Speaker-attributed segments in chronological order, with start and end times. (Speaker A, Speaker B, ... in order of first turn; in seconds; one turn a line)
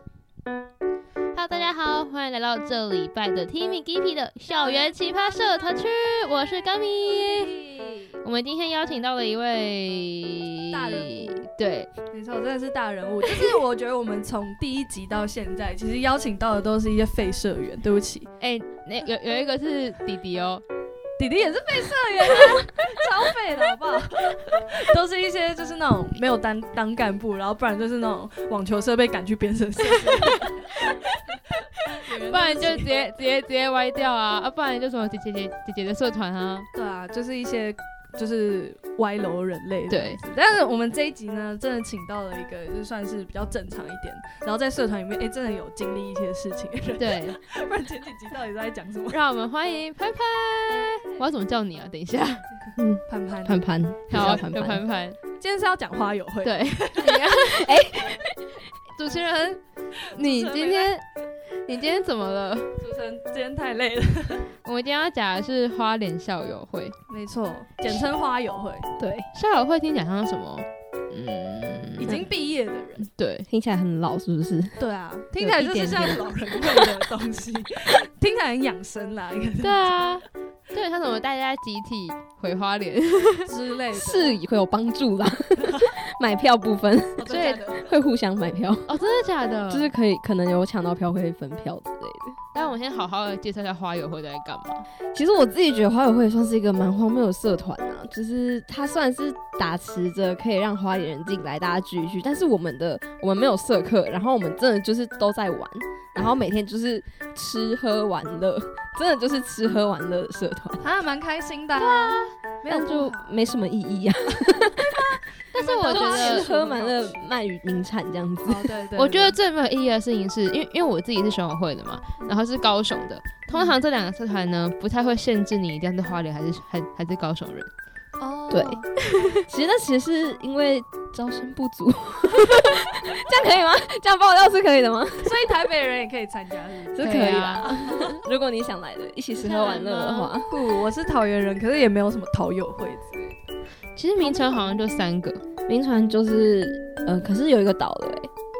Speaker A: 1.3-7.5
Speaker A: 8.2-11.9
Speaker B: 10.7-11.5
Speaker B: 12.1-18.3
Speaker A: 18.4-20.6
Speaker B: 21.2-33.1
Speaker A: 32.2-36.7
Speaker B: 36.7-49.2
Speaker A: 39.9-40.2
Speaker A: 47.0-47.4
Speaker A: 49.1-52.8
Speaker C: 52.8-54.8
Speaker B: 53.1-53.7
Speaker A: 54.1-55.2
Speaker B: 55.4-57.4
Speaker A: 56.4-57.8
Speaker C: 57.5-58.6
Speaker A: 58.9-61.0
Speaker B: 60.1-61.0
Speaker A: 61.5-62.8
Speaker B: 62.8-64.5
Speaker A: 64.6-67.0
Speaker B: 67.1-68.9
Speaker C: 69.0-69.3
Speaker A: 69.3-72.3
Speaker B: 72.0-73.1
Speaker A: 73.0-73.5
Speaker C: 73.5-74.8
Speaker B: 74.8-80.2
Speaker C: 75.3-77.0
Speaker A: 79.6-83.5
Speaker B: 83.5-84.4
Speaker C: 83.9-89.0
Speaker B: 85.6-85.9
Speaker B: 87.2-87.9
Speaker A: 88.9-89.9
Speaker C: 89.7-92.4
Speaker A: 92.5-94.8
Speaker C: 95.1-110.8
Speaker B: 110.8-113.3
Speaker A: 111.8-112.3
Speaker C: 112.7-115.2
Speaker B: 115.5-117.3
Speaker A: 115.5-116.5
Speaker C: 115.8-118.7
Speaker B: 118.5-119.4
Speaker A: 119.0-127.7
Speaker B: 128.2-128.9
Speaker C: 128.5-128.8
Speaker C: 129.4-135.5
Speaker B: 135.2-138.2
Speaker C: 136.9-140.6
Speaker A: 137.0-137.7
Speaker A: 139.3-140.3
Speaker B: 140.5-143.4
Speaker A: 143.9-145.4
Speaker B: 144.2-144.6
Speaker C: 145.7-148.3